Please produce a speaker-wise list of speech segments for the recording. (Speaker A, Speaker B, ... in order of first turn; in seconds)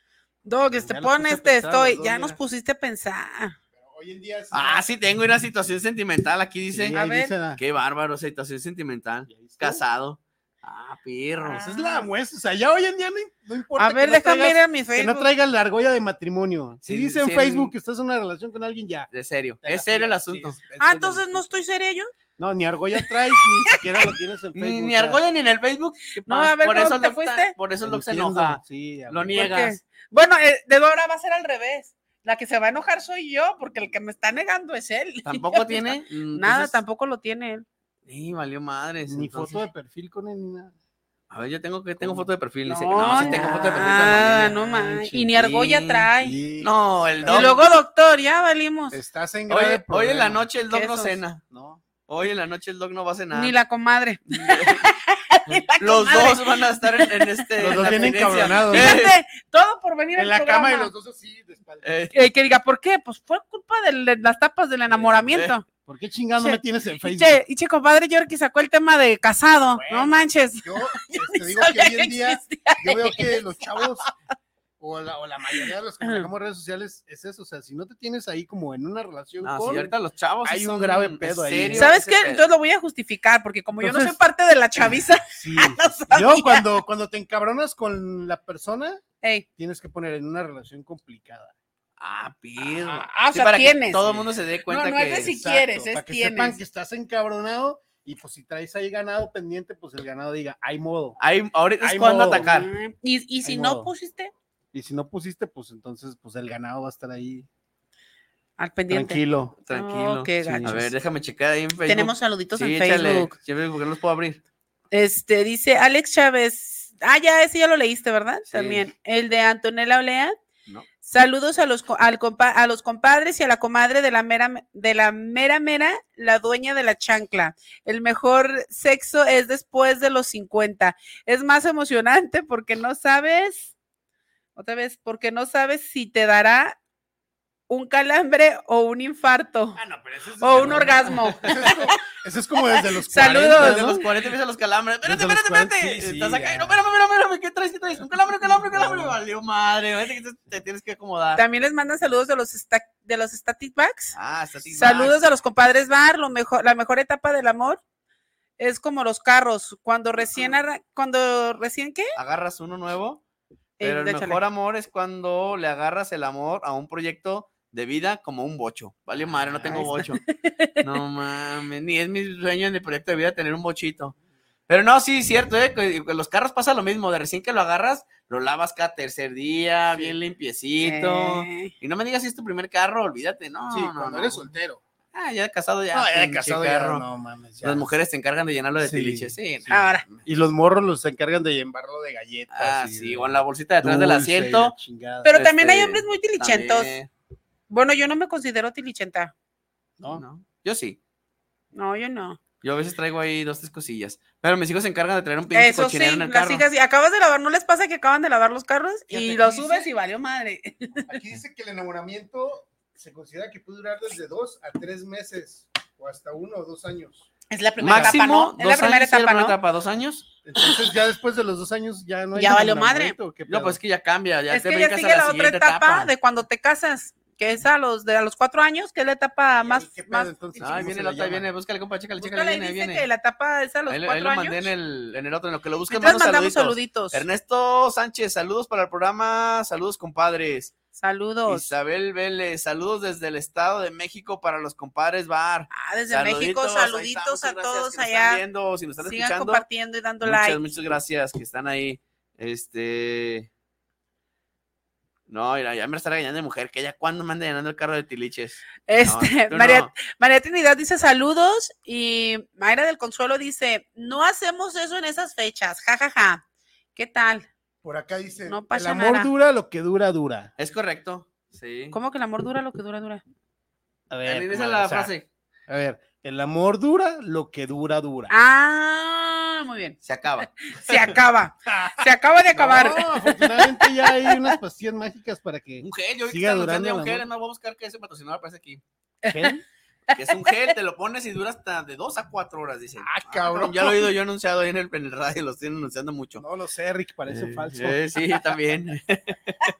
Speaker A: 0.5-3.6, 6.9-7.3, 11.4-12.1, 13.8-15.3, 20.8-22.1, 23.6-24.1, 26.3-27.5, 29.3-37.7, 42.7-46.4, 47.3-49.0, 50.7-51.2, 53.3-60.9, 62.1-65.7, 66.4-74.1, 75.5-76.3, 81.7-86.8, 93.1-96.6, 102.4-104.3, 108.6-110.8, 111.9-113.3, 114.9-120.3, 121.0-133.7, 134.6-136.8, 137.7-139.8, 140.4-142.0, 142.7-144.0, 151.4-154.2, 154.7-157.8, 158.6-162.1, 163.8-164.4, 169.7-170.8, 180.8-181.7, 189.7-190.0, 195.2-197.0, 197.7-199.3, 201.7-202.4, 205.5-211.2, 217.5-219.6, 222.4-223.2, 224.5-230.8, 232.2-234.7, 235.9-237.2, 240.9-241.7, 245.7-248.4, 249.0-250.6, 258.9-266.4, 266.9-267.5, 268.5-269.3, 271.9-273.2, 278.3-280.0, 280.7-284.6, 289.2-289.6, 290.1-290.7
Speaker B: 0.7-2.4, 3.8-4.9, 6.7-7.6, 9.3-9.8, 11.5-19.1, 19.6-21.5, 22.4-25.2, 27.8-29.5, 39.1-40.7, 42.0-42.3, 43.0-45.4, 46.2-47.6, 48.9-50.5, 51.5-51.8, 57.6-59.0, 60.1-62.0, 64.9-65.3, 65.9-67.4, 69.8-74.1, 74.8-79.9, 80.4-81.9, 83.8-84.2, 85.3-89.0, 89.6-91.5, 92.6-93.1, 95.2-101.2, 101.8-102.5, 103.4-103.9, 104.7-107.5, 108.9-109.5, 110.4-110.9, 139.8-144.0, 145.0-146.8, 148.4-149.2, 154.8-155.1, 169.6-170.0, 183.7-184.8, 185.9-187.9, 188.8-195.4, 200.0-200.2, 209.1-209.9, 211.1-217.3, 217.8-218.2, 220.4-223.8, 229.5-231.5, 267.8-270.5, 274.1-275.1, 275.7-278.3, 281.7-287.2, 289.3-289.6, 293.0-294.1, 296.4-298.0
Speaker C: 4.5-7.0, 7.6-11.6, 16.9-17.7, 19.1-20.6, 24.5-29.8, 35.3-36.8, 38.1-39.6, 41.3-44.6, 45.3-46.1, 46.6-47.6, 49.5-51.4, 52.1-53.6, 54.3-54.9, 55.6-59.1, 61.8-62.1, 65.3-65.5, 79.4-82.5, 92.0-95.3, 101.2-102.7, 109.7-114.4, 118.5-118.8, 143.5-151.4, 154.1-155.2, 162.2-163.2, 163.8-170.2, 170.8-174.2, 174.7-184.5, 185.1-187.0, 187.6-190.3, 192.5-194.8, 195.3-197.1, 200.1-201.0, 202.6-206.7, 217.8-220.3, 223.5-226.1, 230.6-233.1, 233.9-240.7, 241.5-249.7, 250.2-253.5, 255.3-259.9, 270.6-272.0, 274.2-275.3, 280.0-281.2, 285.8-288.8, 290.1-296.4, 297.3-299.6